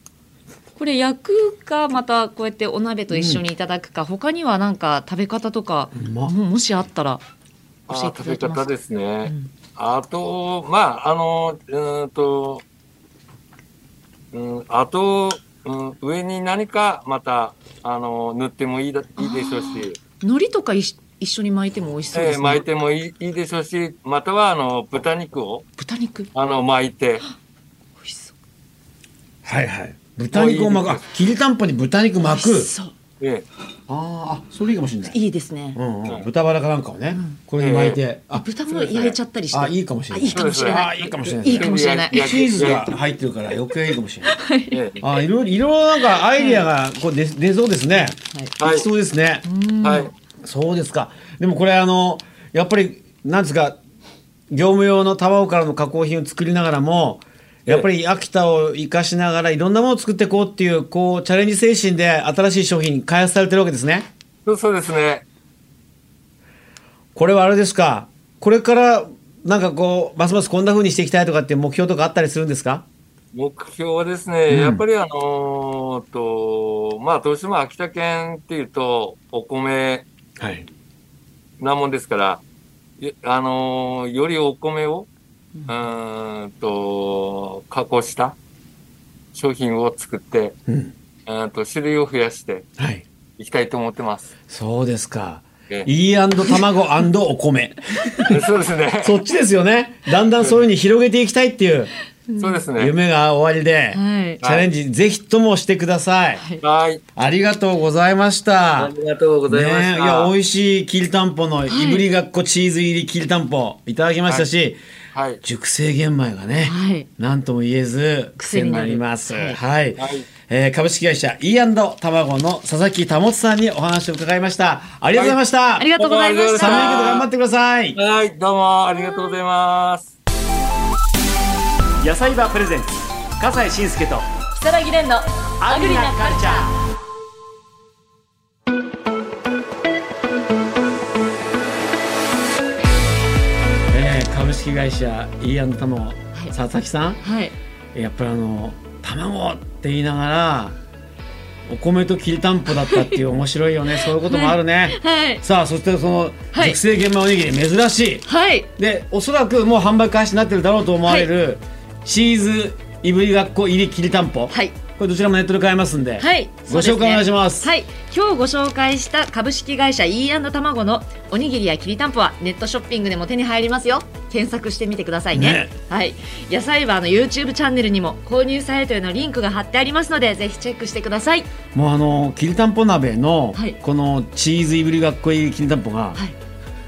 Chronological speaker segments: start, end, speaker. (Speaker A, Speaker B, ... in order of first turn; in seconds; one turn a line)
Speaker A: 0.8-7.2
Speaker B: 3.1-3.4
Speaker B: 5.9-6.3
Speaker C: 7.9-12.6
Speaker A: 7.9-9.5
Speaker C: 14.3-20.0
Speaker A: 19.2-22.6
Speaker C: 22.1-25.7
Speaker A: 25.8-26.3
Speaker C: 26.4-27.2
Speaker A: 28.0-28.4
Speaker B: 29.4-32.7
Speaker C: 30.3-31.0
Speaker A: 32.2-32.9
Speaker C: 33.2-33.5
Speaker B: 33.9-35.2
Speaker A: 35.1-35.8
Speaker B: 35.8-38.5
Speaker A: 37.1-37.4
Speaker C: 37.6-38.0
Speaker A: 38.3-42.7
Speaker C: 38.7-39.2
Speaker B: 39.5-44.4
Speaker C: 40.4-40.9
Speaker C: 41.5-42.9
Speaker A: 44.2-44.8
Speaker C: 44.7-45.1
Speaker B: 45.0-49.5
Speaker A: 46.1-46.7
Speaker A: 47.9-48.5
Speaker C: 48.6-48.9
Speaker A: 49.4-50.1
Speaker C: 49.8-50.1
Speaker B: 50.4-53.8
Speaker B: 54.5-64.1
Speaker C: 64.4-65.2
Speaker B: 67.1-72.9
Speaker C: 73.3-80.0
Speaker B: 74.5-74.8
Speaker B: 80.4-80.7
Speaker C: 81.6-82.4
Speaker C: 83.0-85.1
Speaker C: 85.7-88.4
Speaker C: 89.3-90.5
Speaker B: 90.7-90.9
Speaker C: 91.2-92.7
Speaker B: 92.8-93.0
Speaker C: 93.4-94.3
Speaker B: 94.5-98.4
Speaker C: 98.2-99.2
Speaker B: 99.0-101.9
Speaker C: 100.4-100.7
Speaker A: 102.3-102.6
Speaker C: 102.4-102.9
Speaker B: 102.8-106.4
Speaker A: 103.9-104.4
Speaker C: 104.4-104.7
Speaker A: 106.3-106.6
Speaker C: 106.6-107.0
Speaker B: 107.2-108.9
Speaker C: 108.8-110.3
Speaker B: 109.5-114.8
Speaker A: 111.7-112.0
Speaker C: 115.1-115.4
Speaker B: 115.4-125.9
Speaker A: 116.6-117.1
Speaker A: 118.4-119.6
Speaker C: 120.0-120.3
Speaker C: 125.1-125.4
Speaker A: 125.8-127.3
Speaker C: 126.0-127.3
Speaker B: 126.5-128.0
Speaker C: 127.9-130.1
Speaker B: 132.0-134.2
Speaker A: 134.5-136.7
Speaker B: 135.6-136.7
Speaker B: 143.9-147.2
Speaker A: 147.2-147.5
Speaker B: 147.9-150.8
Speaker B: 151.7-158.2
Speaker A: 152.8-153.2
Speaker A: 154.0-155.4
Speaker A: 156.5-156.8
Speaker A: 158.2-158.7
Speaker B: 158.8-167.7
Speaker A: 161.0-161.3
Speaker A: 164.5-164.8
Speaker A: 166.2-181.5
Speaker B: 175.3-175.7
Speaker B: 181.7-186.2